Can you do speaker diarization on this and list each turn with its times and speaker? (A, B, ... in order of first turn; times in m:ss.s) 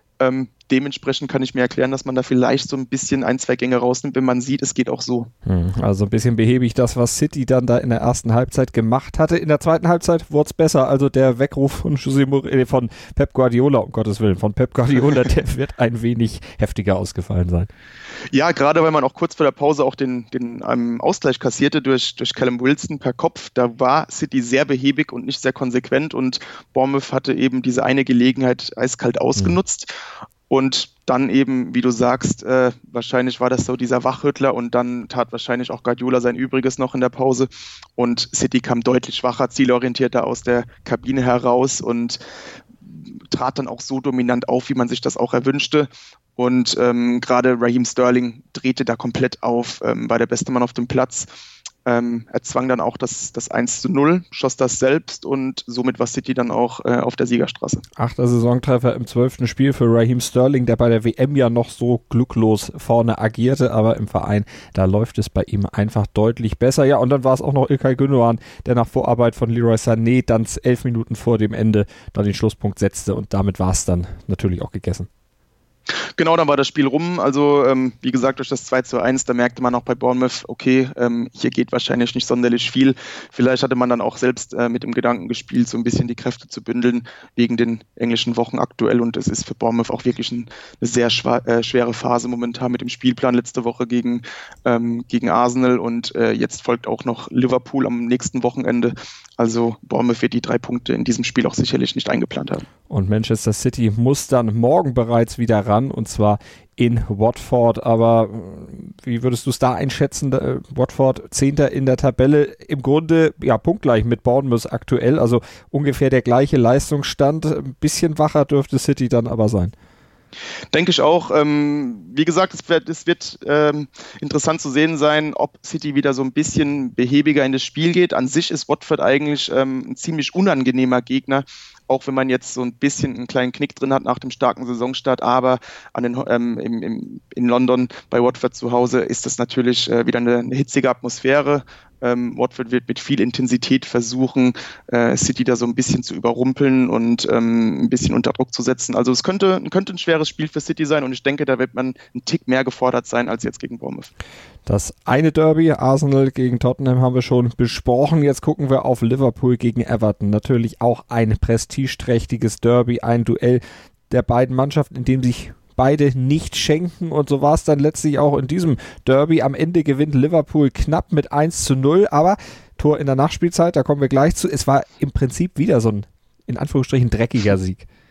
0:00.2-0:05.3 A
0:05.5-0:17.7 B
0:18.3-0:29.9 A
0:30.5-0:42.2 A
0:42.8-0:51.3 A
0:51.8-0:57.8 A
0:58.0-1:15.1 B
1:16.2-1:42.6 A
1:42.9-1:59.7 B
2:00.7-2:34.1 A
2:34.7-2:57.9 B